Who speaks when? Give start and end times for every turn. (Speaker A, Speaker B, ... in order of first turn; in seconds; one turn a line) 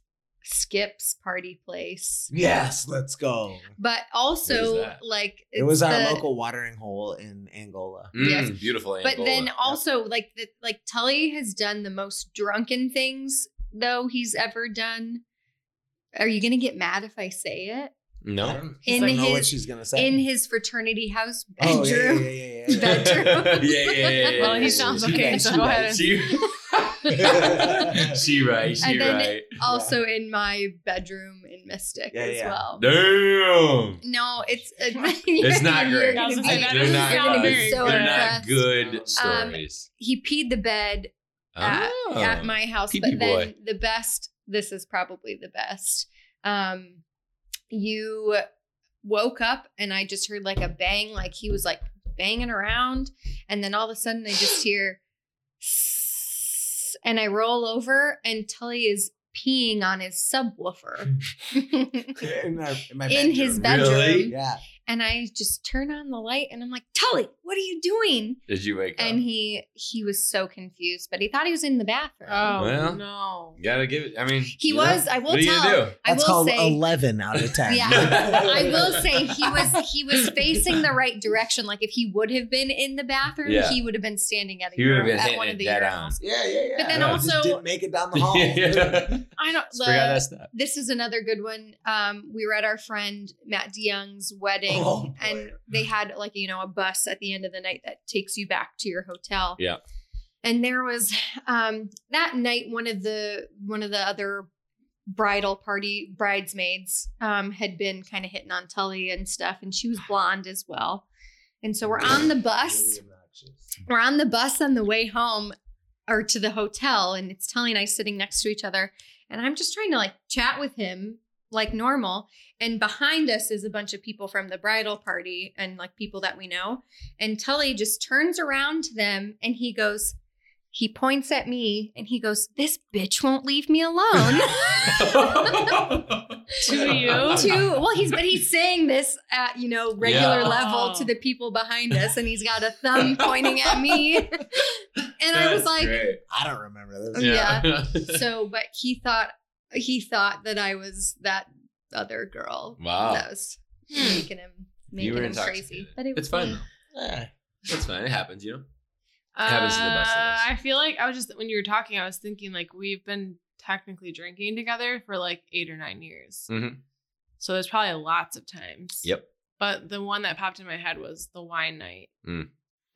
Speaker A: 0.4-2.3
Speaker B: 2.3-3.7
Speaker A: 3.8-6.2
Speaker C: 4.5-5.0
Speaker B: 5.5-8.2
Speaker C: 8.1-9.6
Speaker A: 8.2-15.2
Speaker A: 16.2-17.9
Speaker C: 18.2-18.6
Speaker B: 18.4-20.2
Speaker A: 18.9-24.5
Speaker B: 21.6-23.4
Speaker C: 22.8-29.5
Speaker B: 24.3-26.1
Speaker D: 24.4-26.4
Speaker B: 27.2-28.2
Speaker A: 28.8-32.8
Speaker B: 29.6-30.0
Speaker B: 32.1-32.7
Speaker C: 32.8-34.0
Speaker A: 34.0-38.6
Speaker C: 35.4-39.9
Speaker D: 35.7-38.4
Speaker B: 38.6-39.4
Speaker A: 39.1-47.0
Speaker C: 41.5-43.5
Speaker A: 47.7-48.5
Speaker A: 49.0-55.0
Speaker A: 55.6-62.4
Speaker B: 62.2-64.6
Speaker A: 63.1-68.4
Speaker C: 63.6-64.3
Speaker C: 68.5-69.2
Speaker A: 69.0-72.7
Speaker D: 72.3-73.6
Speaker C: 72.6-73.0
Speaker C: 73.6-76.0
Speaker A: 74.6-76.8
Speaker B: 76.0-79.0
Speaker A: 77.7-86.2
Speaker C: 77.8-80.6
Speaker C: 83.4-83.8
Speaker C: 84.8-86.2
Speaker B: 86.2-89.2
Speaker A: 86.8-87.6
Speaker C: 86.9-87.2
Speaker C: 88.1-90.5
Speaker A: 89.4-99.6
Speaker B: 94.7-95.6
Speaker A: 100.4-104.5
Speaker A: 105.1-111.1
Speaker A: 111.6-113.0
Speaker B: 111.8-113.7
Speaker A: 113.8-115.5
Speaker A: 116.1-130.2
Speaker A: 130.7-136.0
Speaker C: 134.2-137.7
Speaker D: 136.6-137.6
Speaker A: 136.7-146.1
Speaker C: 140.0-140.6
Speaker D: 140.2-141.1
Speaker C: 143.0-146.2
Speaker B: 146.3-147.7
Speaker A: 147.1-156.6
Speaker C: 147.2-148.2
Speaker C: 152.8-153.3
Speaker D: 153.9-154.3
Speaker C: 155.0-156.7
Speaker B: 156.9-157.3
Speaker C: 157.7-158.7
Speaker D: 159.4-166.5
Speaker C: 159.4-160.5
Speaker C: 166.5-166.8
Speaker D: 167.4-169.1
Speaker D: 169.6-172.1
Speaker C: 172.2-172.5